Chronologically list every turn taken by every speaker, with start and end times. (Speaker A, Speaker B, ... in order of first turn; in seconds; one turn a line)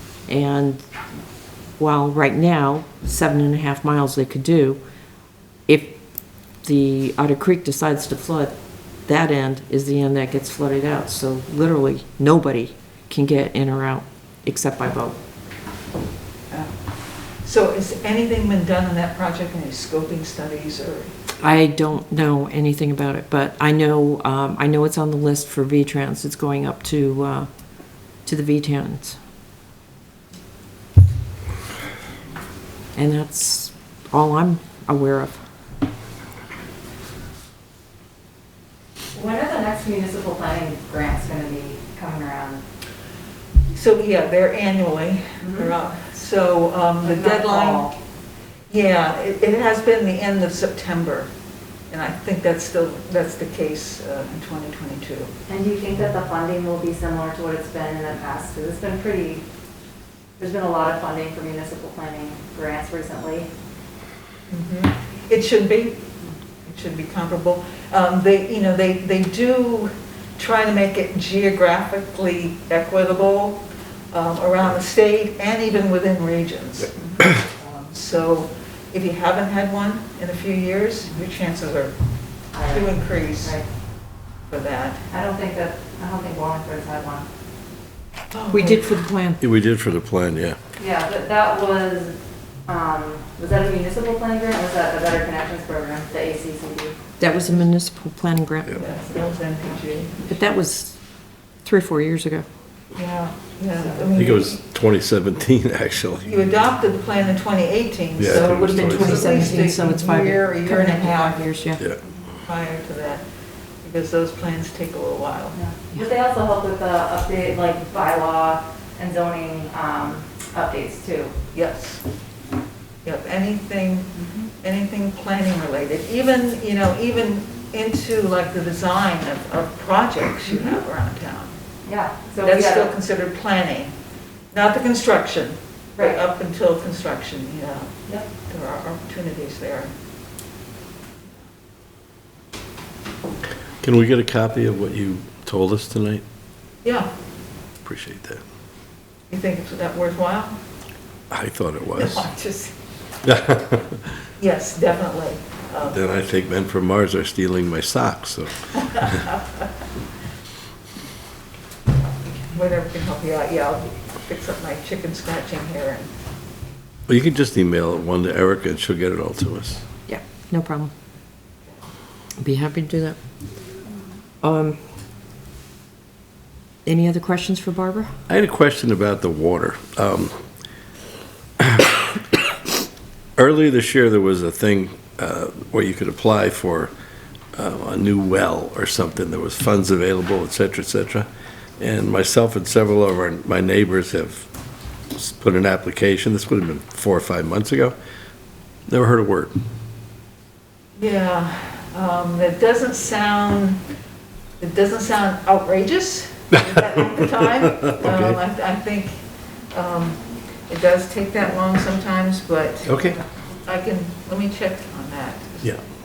Speaker A: 0.3-0.8
Speaker A: 1.8-4.8
Speaker A: 5.7-15.2
Speaker B: 16.5-21.1
Speaker A: 21.4-29.2
Speaker A: 33.0-35.4
Speaker C: 39.1-42.6
Speaker B: 43.7-47.9
Speaker C: 45.4-45.7
Speaker C: 47.0-48.0
Speaker B: 48.7-51.3
Speaker B: 51.9-55.3
Speaker C: 55.5-59.4
Speaker C: 60.4-63.5
Speaker B: 64.5-66.1
Speaker B: 66.7-81.9
Speaker C: 82.5-83.7
Speaker B: 82.7-83.6
Speaker B: 84.5-85.0
Speaker C: 85.1-87.3
Speaker B: 88.3-88.9
Speaker A: 88.5-89.4
Speaker D: 89.4-90.6
Speaker C: 90.8-97.0
Speaker A: 97.2-98.8
Speaker B: 98.7-100.2
Speaker A: 100.3-101.0
Speaker A: 101.6-102.5
Speaker B: 103.0-104.6
Speaker C: 103.8-104.0
Speaker D: 104.2-106.4
Speaker B: 106.2-111.4
Speaker D: 108.2-109.4
Speaker A: 108.3-111.8
Speaker B: 112.4-113.2
Speaker B: 113.8-115.6
Speaker C: 115.5-121.4
Speaker B: 121.5-122.0
Speaker B: 123.0-131.6
Speaker C: 124.2-124.5
Speaker C: 131.8-132.9
Speaker B: 132.4-133.9
Speaker B: 134.5-139.9
Speaker D: 143.8-146.2
Speaker B: 146.8-147.1
Speaker D: 147.8-148.4
Speaker B: 149.3-150.6
Speaker D: 151.3-152.3
Speaker B: 152.0-152.7
Speaker D: 153.2-154.0
Speaker B: 154.4-156.0
Speaker D: 155.9-159.2
Speaker B: 162.5-166.1
Speaker D: 167.1-169.8
Speaker A: 170.1-170.9
Speaker A: 172.4-173.2
Speaker A: 174.4-174.8
Speaker A: 176.8-178.1
Speaker D: 178.3-180.4
Speaker D: 181.6-182.4
Speaker D: 183.4-186.9
Speaker D: 187.6-191.3
Speaker D: 191.8-194.5
Speaker D: 195.1-197.9
Speaker D: 198.9-199.6
Speaker B: 201.0-203.8
Speaker B: 204.6-209.1
Speaker D: 207.9-208.4
Speaker B: 209.7-212.9
Speaker D: 212.9-213.2
Speaker B: 213.7-215.7